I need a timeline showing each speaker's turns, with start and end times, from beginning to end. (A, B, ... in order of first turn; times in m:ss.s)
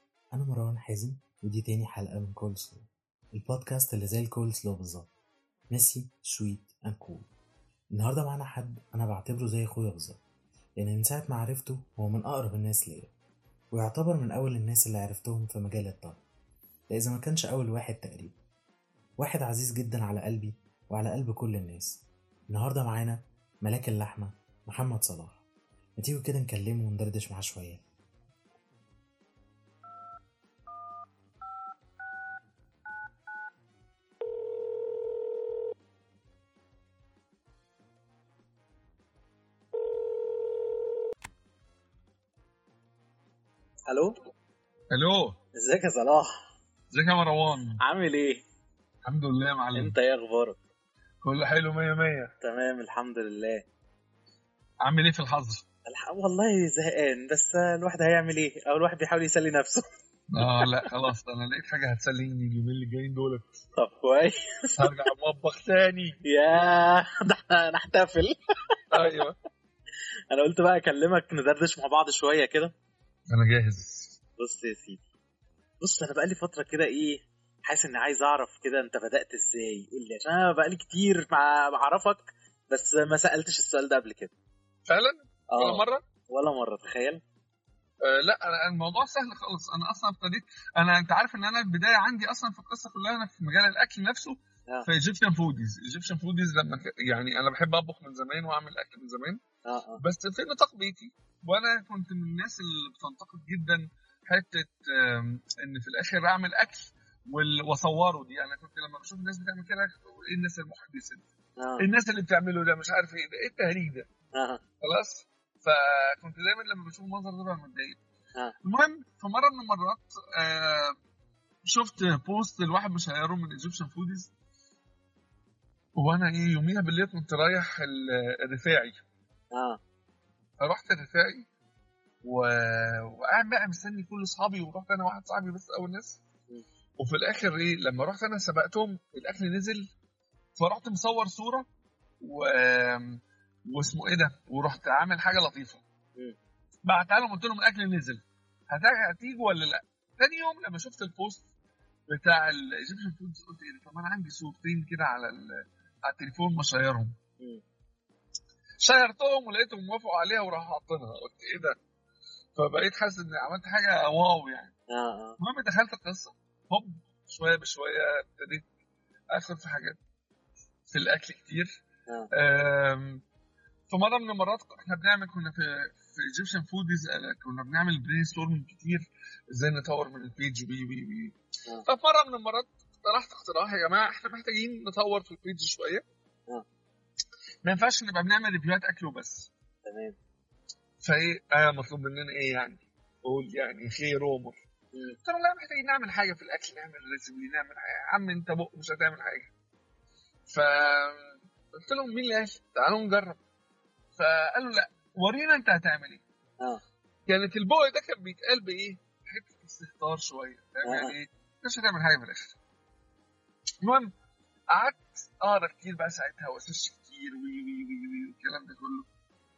0:00.3-0:05.1 A
0:05.7-0:07.3 A
0:07.9-0:10.2 A
0:10.8-0:13.1 A
0:13.7-0:16.2 A
0:16.9-0:18.4 A
0:19.2-0:25.4 A
0:26.0-0:27.8 A
0:43.9-0:44.2 B
0:44.9-0:45.4 C
0:45.6-0:46.3 B
0:46.9-0:47.8 C
0:47.8-0:48.4 B
0:49.0-0:49.9 C
0:49.7-0:50.6 B
0:51.2-0:52.3 C
0:52.4-0:53.6 B
0:54.8-0:55.6 C
0:55.9-0:59.8 B
1:00.3-1:03.6 C
1:00.4-1:00.9 B
1:03.8-1:04.9 B
1:04.8-1:06.2 C
1:06.2-1:08.8 B
1:08.9-1:09.4 C
1:10.3-1:12.7 B
1:13.3-1:14.2 C
1:14.4-1:15.0 B
1:15.8-1:24.3 B
1:24.8-1:26.0 C
1:25.5-1:27.2 B
1:28.0-1:39.4 C
1:39.7-1:40.0 B
1:40.0-1:51.2 C
1:51.6-1:51.8 B
1:51.8-1:54.1 C
1:54.3-1:54.6 B
1:54.8-1:58.0 C
1:58.6-2:01.0 C
2:01.6-2:04.3 C
2:06.0-2:09.0 C
2:09.5-2:09.8 B
2:10.6-2:11.4 C
2:12.2-2:16.2 C
2:17.0-2:19.9 C
2:20.6-2:21.6 C
2:22.2-2:25.8 C
2:26.8-2:31.4 C
2:32.1-2:37.2 C
2:38.8-2:41.8 C
2:42.6-2:44.7 C
2:44.9-2:45.4 B
2:45.4-2:48.6 C
2:49.3-2:50.0 C
2:50.9-2:51.7 C
2:52.3-2:53.2 C
2:53.9-3:06.0 C
3:07.6-3:09.5 C
3:09.8-3:10.2 B
3:11.0-3:14.6 C
3:15.2-3:19.5 C
3:20.5-3:23.4 C
3:24.2-3:26.2 C
3:27.3-3:32.6 C
3:30.8-3:31.1 B
3:33.8-3:34.1 C
3:34.7-3:39.1 C